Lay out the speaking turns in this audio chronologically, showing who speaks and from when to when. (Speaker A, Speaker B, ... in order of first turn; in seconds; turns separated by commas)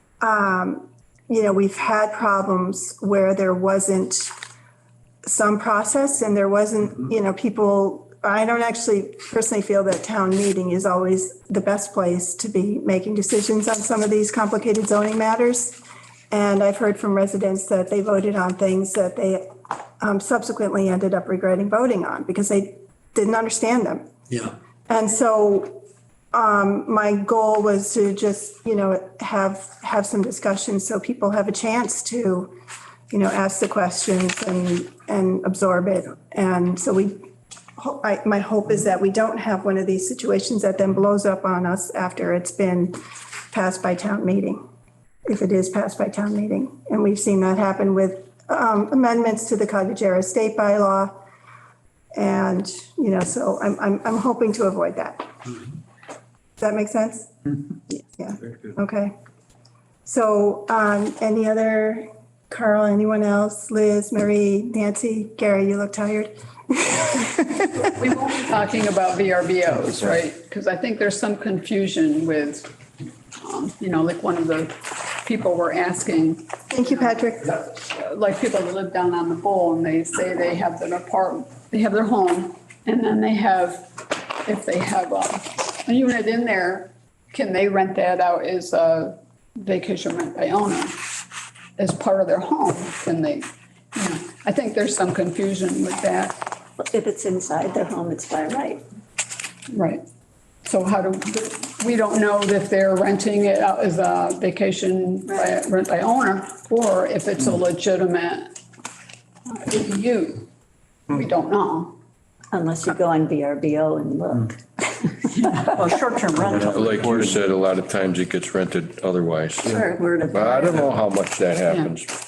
Speaker A: 0.2-4.3, Speaker A: 5.2-19.5, Speaker A: 20.0-24.1, Speaker A: 24.9-32.5, Speaker A: 33.1-37.2, Speaker A: 37.8-43.0, Speaker A: 43.5-44.6, Speaker A: 45.3-51.2, Speaker A: 52.1-55.5, Speaker A: 56.6-57.5, Speaker A: 58.1-59.1, Speaker A: 60.0-67.9, Speaker B: 68.0-72.7, Speaker B: 73.4-83.9, Speaker A: 76.7-77.6, Speaker B: 84.5-91.0, Speaker B: 91.8-96.5, Speaker C: 96.8-98.8, Speaker B: 99.7-100.0, Speaker B: 100.7-108.5, Speaker C: 105.3-105.5, Speaker B: 109.5-110.5, Speaker B: 111.1-112.0, Speaker C: 112.5-115.1, Speaker D: 115.4-117.3, Speaker E: 116.6-122.1, Speaker C: 119.6-120.9